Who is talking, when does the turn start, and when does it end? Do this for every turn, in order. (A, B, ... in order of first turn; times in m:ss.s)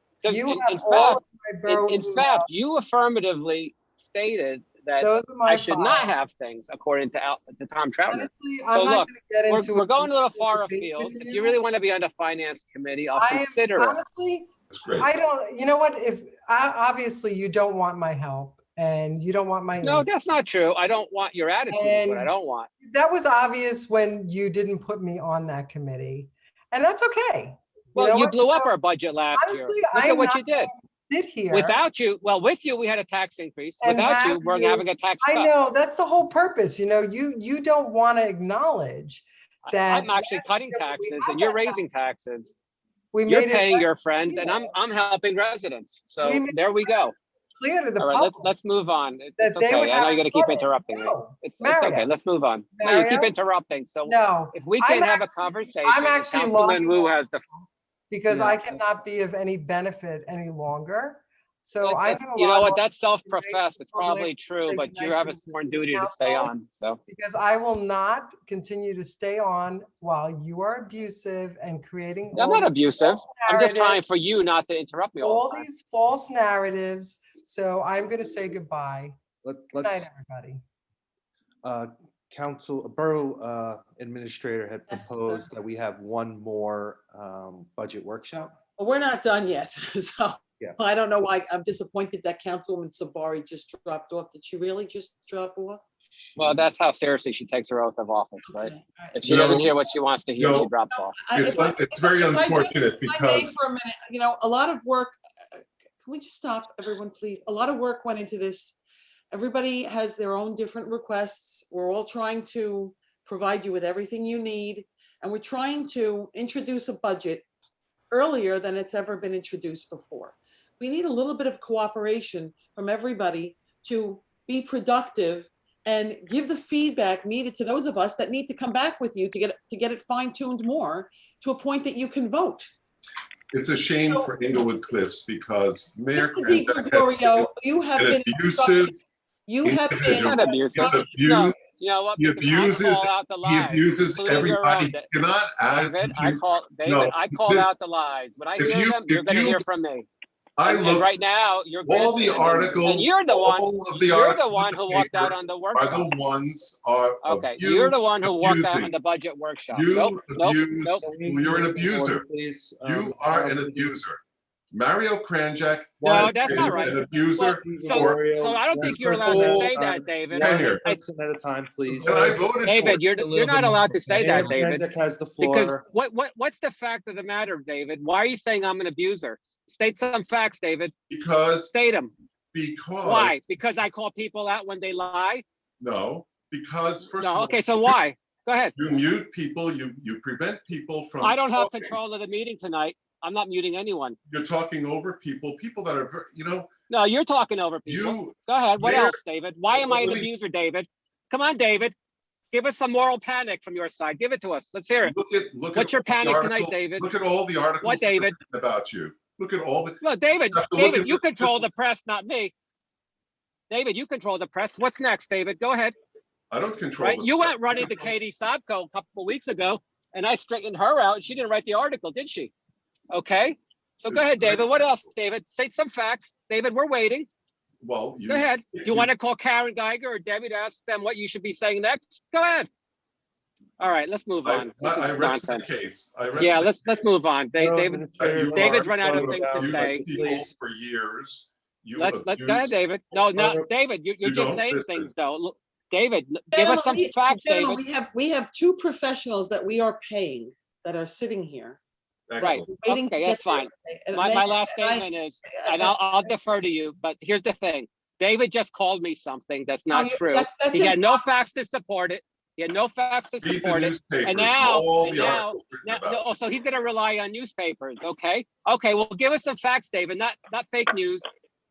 0:00.2-0:14.0 A
0:00.3-0:02.5 B
0:05.0-0:06.1 B
0:08.1-0:11.6 B
0:13.1-0:20.1 B
0:14.7-0:15.1 C
0:19.8-0:22.7 A
0:21.7-0:28.7 B
0:27.9-0:30.7 A
0:29.3-0:31.8 B
0:31.5-0:35.5 A
0:33.8-0:41.8 B
0:39.7-0:42.5 A
0:43.1-0:44.7 B
0:43.3-0:47.2 A
0:46.2-0:48.5 B
0:48.0-0:57.4 A
0:49.4-0:52.1 B
0:52.8-0:53.3 B
0:54.0-1:06.5 B
0:58.3-0:58.6 A
1:01.8-1:07.0 A
1:07.1-1:14.0 B
1:12.3-1:15.6 A
1:15.2-1:19.2 B
1:19.4-1:20.1 D
1:19.8-1:20.6 B
1:21.6-1:28.6 D
1:24.9-1:25.5 E
1:28.8-1:35.8 E
1:36.4-1:41.2 A
1:38.4-1:39.6 E
1:39.2-1:39.7 C
1:40.4-1:40.7 C
1:40.9-1:45.2 E
1:41.3-1:43.5 C
1:46.0-1:48.8 E
1:49.3-1:57.4 E
1:58.1-2:12.7 E
2:13.5-2:18.9 C
2:14.0-2:14.4 E
2:16.1-2:18.9 E
2:19.5-2:21.2 E
2:19.6-2:21.6 C
2:20.2-2:25.1 A
2:22.2-2:27.7 C
2:25.7-2:30.1 A
2:28.6-2:29.6 C
2:30.6-2:31.2 C
2:30.6-2:36.1 A
2:31.8-2:38.9 C
2:37.2-2:41.0 A
2:39.7-2:42.2 C
2:41.0-2:44.0 D
2:42.8-2:44.2 C
2:44.7-2:49.8 C
2:46.0-2:51.0 A
2:46.0-2:52.5 D
2:50.4-2:50.8 C
2:52.0-2:53.0 C
2:52.6-2:54.9 A
2:53.2-2:55.8 D
2:55.4-3:00.9 A
3:01.1-3:01.7 C
3:01.7-3:02.1 A
3:02.5-3:03.3 C
3:03.0-3:05.4 A
3:05.8-3:07.9 C
3:07.1-3:08.7 A
3:08.8-3:12.0 C
3:11.2-3:14.2 A
3:14.3-3:16.7 C
3:16.9-3:21.9 A
3:17.8-3:19.2 C
3:19.7-3:20.3 C
3:22.5-3:25.1 A
3:25.0-3:31.6 C
3:25.7-3:27.1 A
3:27.8-3:28.3 A
3:30.0-3:32.5 A
3:33.7-3:35.9 A
3:36.5-3:38.0 C
3:37.0-3:42.5 A
3:43.1-3:47.3 A
3:44.1-3:44.9 C
3:47.8-3:49.1 C
3:48.3-3:52.7 A
3:53.8-3:55.7 A
3:54.4-3:57.1 C
3:56.4-4:00.1 A
3:57.6-4:00.5 D
3:58.2-4:02.7 C
4:02.0-4:07.8 A
4:03.3-4:03.7 D
4:04.2-4:05.1 C
4:06.5-4:11.8 E
4:12.3-4:12.7 C
4:12.4-4:16.3 E
4:12.4-4:31.3 A
4:19.9-4:21.2 E
4:23.4-4:26.3 C